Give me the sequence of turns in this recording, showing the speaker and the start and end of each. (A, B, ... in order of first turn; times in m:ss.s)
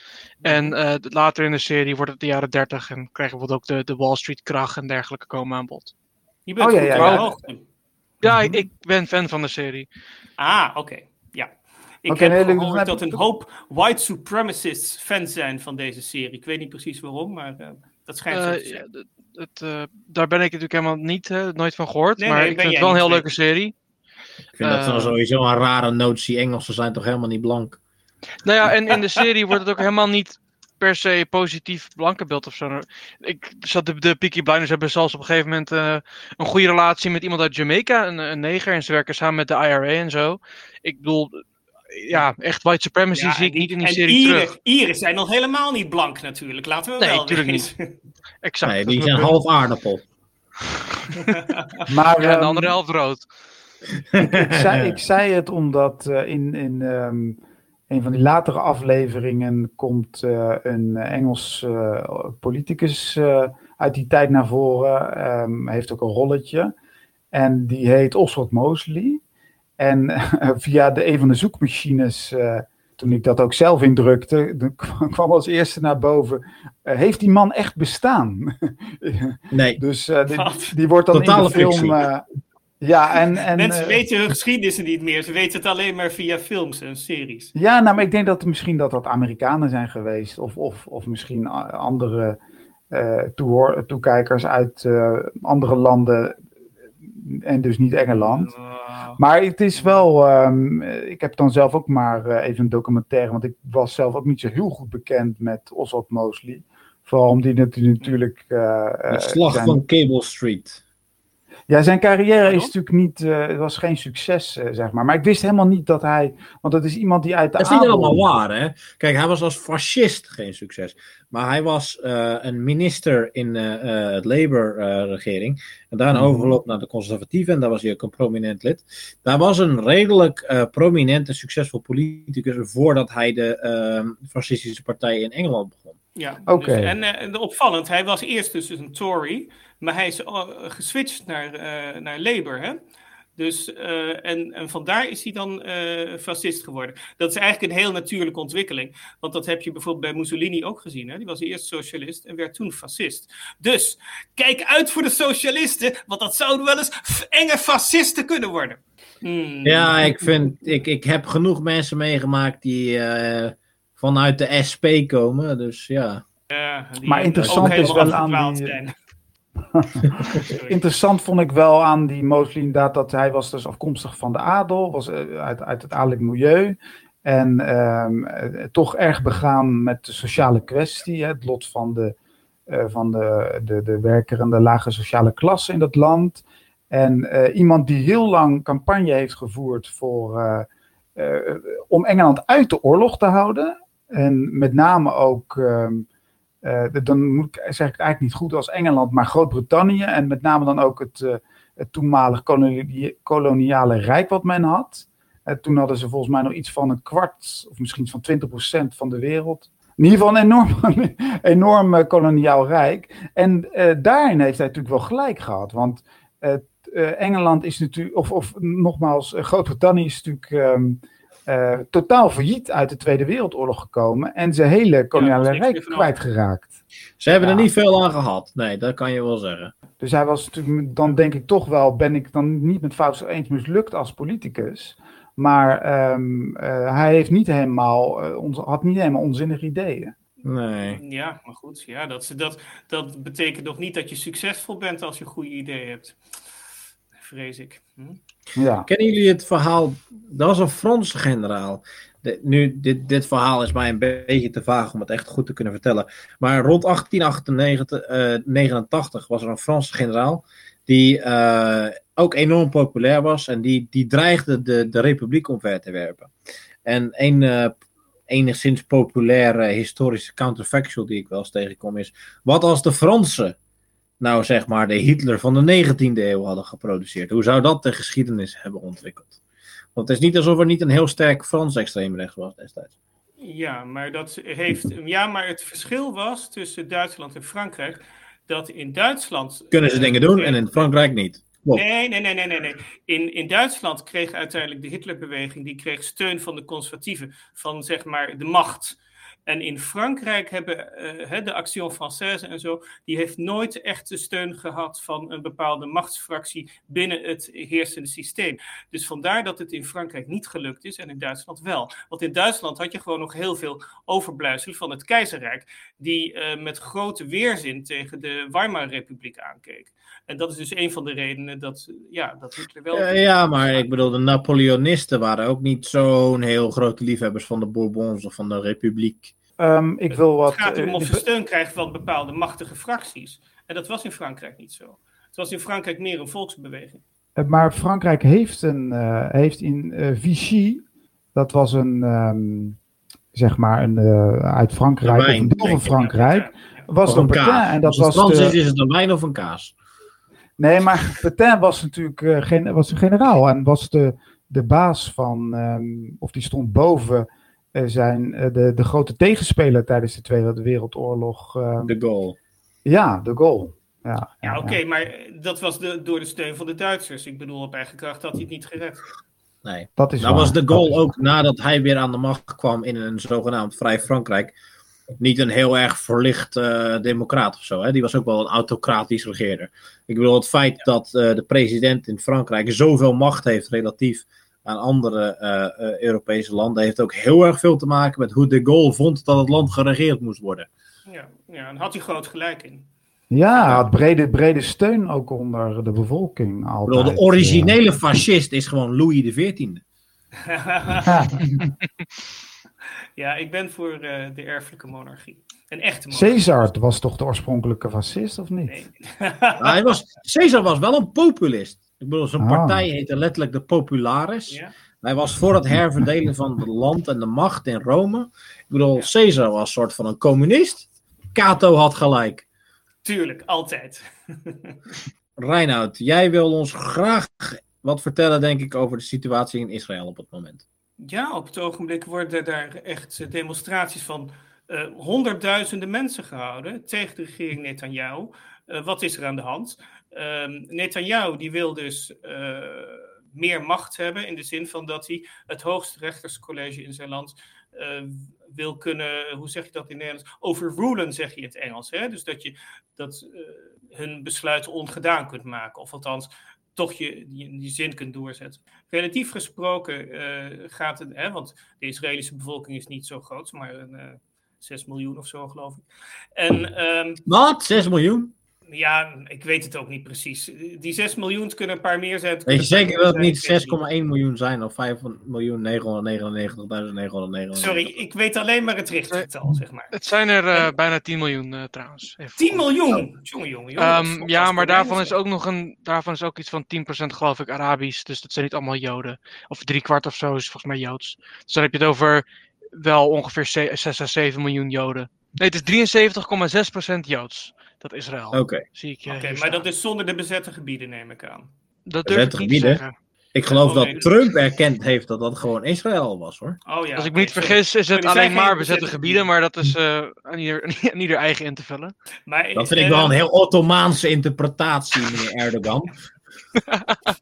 0:00.4-0:05.9 A
0:00.4-0:00.8 B
0:06.4-0:07.6 B
0:06.6-0:07.3 C
0:06.9-0:07.2 A
0:08.2-0:09.9 A
0:08.2-0:08.6 C
0:10.4-0:11.5 B
0:12.0-0:18.8 B
0:12.1-0:13.2 C
0:18.3-0:23.7 A
0:22.2-0:23.3 B
0:24.6-0:27.8 D
0:24.6-0:25.1 A
0:28.4-0:44.5 A
0:28.9-0:29.2 B
0:43.1-0:47.9 B
0:47.0-0:47.7 A
0:48.4-0:49.4 A
0:48.6-0:50.0 D
0:51.2-0:51.9 B
0:51.9-0:52.8 C
0:52.2-0:53.3 A
0:54.1-0:55.0 D
0:54.2-0:57.4 C
0:57.9-1:06.7 C
1:07.3-1:09.2 C
1:09.8-1:22.2 C
1:19.5-1:19.8 D
1:20.3-1:20.7 B
1:21.1-1:22.0 D
1:22.8-1:24.0 C
1:23.5-1:27.5 B
1:27.5-1:32.4 C
1:32.9-1:36.4 C
1:37.0-1:38.5 C
1:38.1-1:39.2 B
1:39.2-1:49.8 C
1:39.8-1:40.0 B
1:49.1-1:50.8 D
1:51.7-1:58.2 C
1:52.4-1:52.7 B
1:57.6-2:16.0 D
2:06.1-2:06.5 C
2:16.1-2:22.8 B
2:16.5-2:16.9 C
2:23.4-2:40.4 B
2:39.6-2:46.2 D
2:46.5-2:48.9 B
2:47.1-2:48.8 C
2:47.4-2:48.1 D
2:49.7-3:02.1 C
2:50.4-2:50.8 B
3:02.7-3:16.0 C
3:16.6-3:46.7 C
3:45.1-3:46.1 B
3:47.2-3:49.7 D
3:47.3-3:47.7 C
3:50.0-4:00.1 C
4:00.4-4:01.0 D
4:01.0-4:06.2 B
4:07.2-4:08.2 B
4:08.5-4:08.9 C
4:08.8-4:26.3 D
4:26.8-4:27.8 D
4:28.3-4:33.6 D
4:34.2-4:39.4 D
4:39.9-4:42.9 D
4:43.4-4:50.9 B
4:49.7-4:51.8 D
4:51.7-5:23.9 B
5:22.9-5:29.3 D
5:29.6-5:31.2 C
5:30.1-5:37.0 B
5:37.4-5:40.8 C
5:41.3-5:42.8 C
5:43.3-5:48.5 C
5:45.0-5:45.9 D
5:45.8-5:46.8 B
5:47.0-5:49.7 D
5:50.6-6:01.9 C
6:01.8-6:02.4 D
6:02.8-6:04.8 C
6:04.4-6:09.0 B
6:09.6-6:14.5 D
6:10.0-6:11.1 C
6:15.2-6:30.7 D
6:31.0-6:32.9 B
6:33.3-6:37.8 C
6:33.6-6:33.8 B
6:36.9-6:39.8 D
6:40.4-6:41.1 B
6:41.0-6:41.6 C
6:43.2-6:46.6 B
6:46.1-6:48.8 C
6:48.7-6:49.7 B
6:49.6-7:02.4 D
6:52.4-6:52.8 C
7:03.0-7:04.9 B
7:05.4-7:10.6 D
7:11.0-7:45.8 B
7:46.4-7:47.2 B
7:47.3-7:48.3 D
7:48.7-7:53.8 B
7:52.5-7:57.9 D
7:57.5-7:59.9 B
7:59.9-8:02.7 A
8:02.4-8:05.2 B
8:03.8-8:19.6 A
8:18.3-8:18.6 D
8:19.0-8:21.5 B
8:21.9-8:22.9 A
8:22.1-8:22.8 D
8:23.3-8:26.6 D
8:23.5-8:24.1 B
8:26.6-8:29.3 B
8:27.0-8:31.9 A
8:32.3-8:33.1 B
8:32.5-8:36.0 D
8:36.7-8:37.0 A